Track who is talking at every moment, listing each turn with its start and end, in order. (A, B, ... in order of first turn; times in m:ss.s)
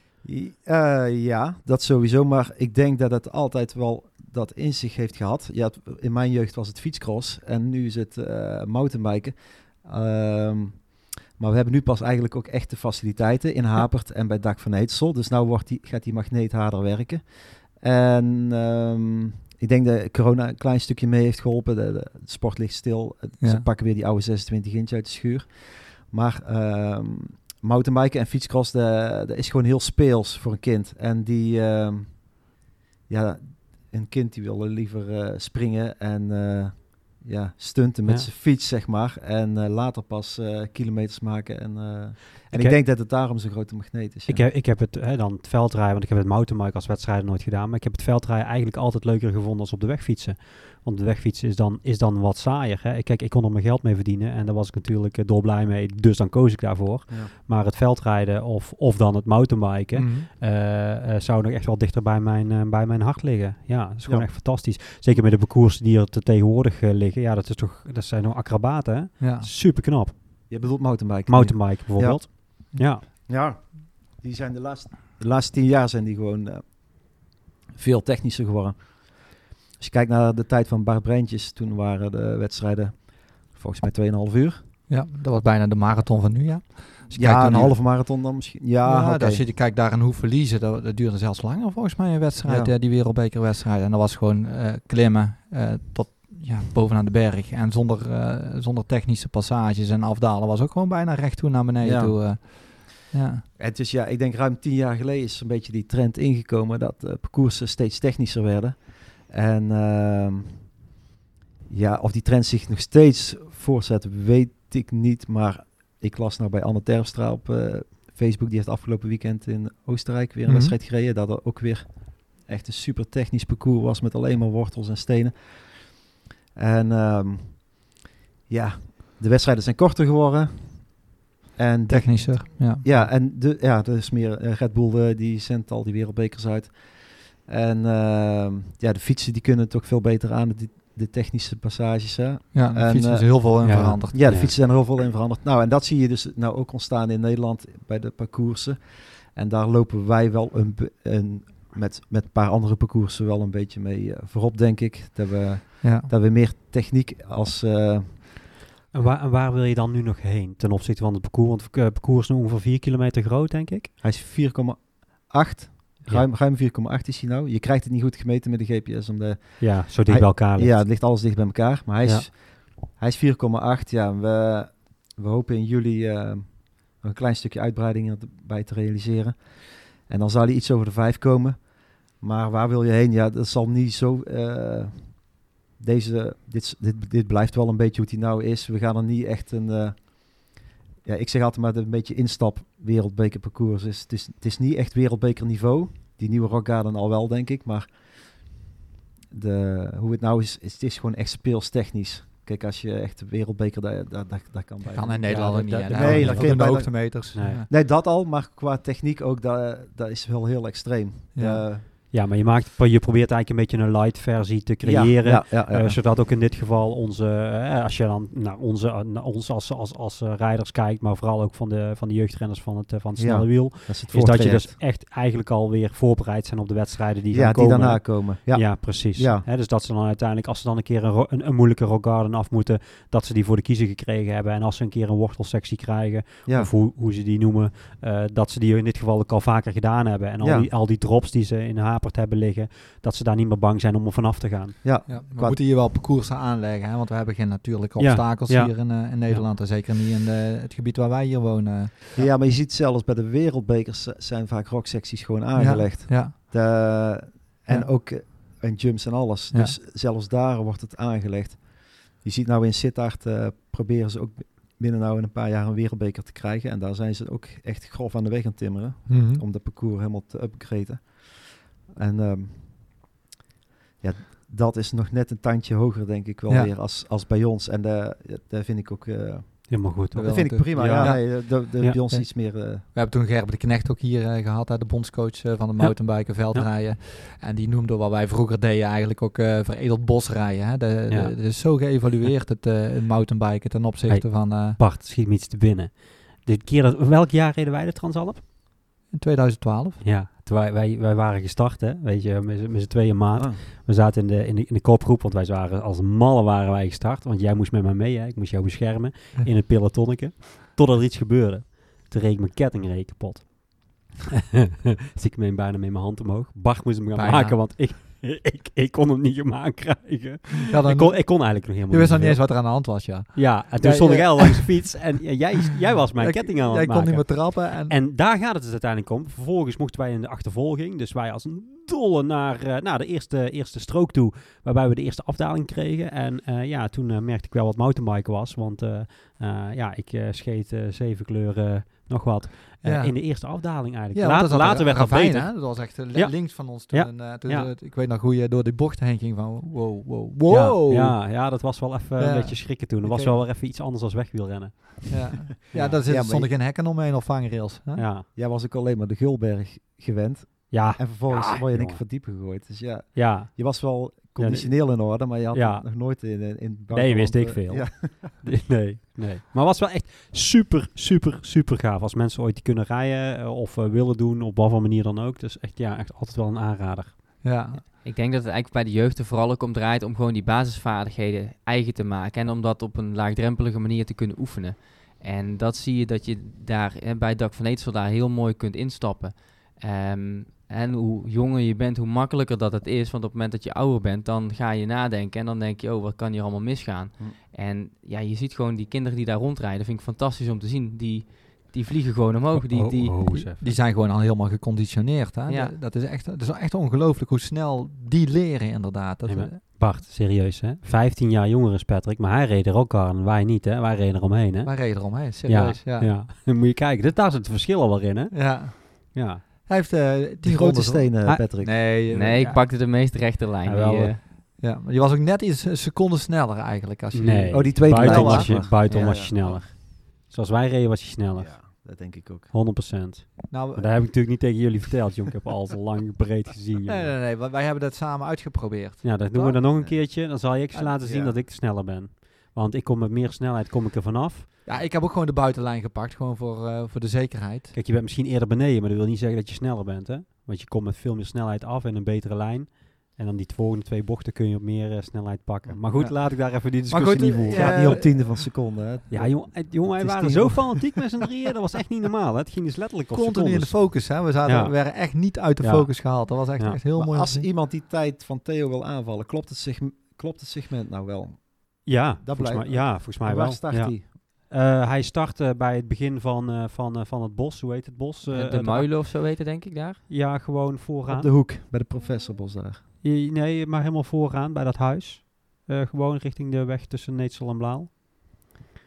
0:00.2-0:44.5 A
0:23.4-0:23.6 B
0:42.5-0:42.8 C
0:44.3-1:13.0 C
0:59.9-1:00.3 B
1:04.0-1:04.8 A
1:09.2-1:09.5 B
1:10.5-1:24.6 A
1:24.9-1:28.0 B
1:27.1-1:29.4 A
1:28.8-1:43.4 B
1:32.4-1:32.7 A
1:41.8-1:42.2 A
1:43.6-1:50.8 A
1:51.7-2:38.4 A
2:00.4-2:00.8 B
2:11.9-2:12.8 B
2:22.5-2:24.2 B
2:23.6-2:24.5 C
2:35.8-2:36.1 B
2:38.9-2:43.9 C
2:44.0-3:18.7 A
2:49.6-2:51.3 C
2:52.0-2:52.3 C
3:19.3-3:31.9 A
3:24.9-3:27.7 B
3:25.2-3:27.6 C
3:31.3-3:31.6 B
3:31.9-4:04.8 C
3:34.8-3:36.0 A
3:43.1-3:44.8 A
3:47.3-3:49.4 A
3:56.4-3:56.7 A
4:00.4-4:00.7 A
4:04.8-4:05.6 A
4:05.0-4:12.2 B
4:08.0-4:09.5 C
4:12.2-4:33.1 A
4:15.5-4:16.3 B
4:19.5-4:19.8 B
4:29.1-4:29.4 B
4:34.0-4:42.8 A
4:39.7-4:42.0 C
4:40.1-4:54.8 B
4:45.8-4:46.7 C
4:51.1-4:52.3 C
4:54.1-4:58.4 C
4:59.1-5:00.0 B
5:00.0-5:14.2 C
5:03.4-5:03.6 A
5:15.1-5:47.7 C
5:17.1-5:17.6 B
5:20.7-5:25.1 B
5:26.2-5:28.0 B
5:42.8-5:51.6 B
5:50.5-5:56.0 C
5:52.2-5:53.4 B
5:53.1-5:53.4 A
5:55.1-5:58.0 B
5:55.7-5:56.5 A
5:58.0-5:58.3 C
5:58.3-6:08.4 A
6:00.7-6:02.5 C
6:03.1-6:17.6 C
6:17.4-6:17.8 B
6:17.8-6:43.3 D
6:42.5-6:43.7 C
6:43.3-6:49.6 B
6:45.5-6:45.7 D
6:49.2-6:59.4 C
6:54.6-6:56.1 B
6:58.3-7:02.4 B
7:00.4-7:01.8 A
7:01.2-7:01.8 C
7:02.1-7:04.2 D
7:02.3-7:02.8 C
7:03.6-7:04.2 C
7:04.6-7:08.7 B
7:07.1-7:17.1 C
7:07.5-7:09.7 A
7:11.3-7:12.5 A
7:13.5-7:13.9 B
7:16.8-7:20.1 B
7:19.0-7:24.5 C
7:21.0-7:21.4 A
7:24.6-7:27.7 B
7:27.7-7:46.8 C
7:35.6-7:35.9 A
7:35.9-7:38.4 B
7:37.5-7:41.0 A
7:43.1-7:47.5 B
7:46.9-7:54.1 A
7:51.8-7:59.0 C
7:58.3-8:00.1 D
8:00.1-8:01.3 C
8:01.0-8:02.8 A
8:03.0-8:07.9 C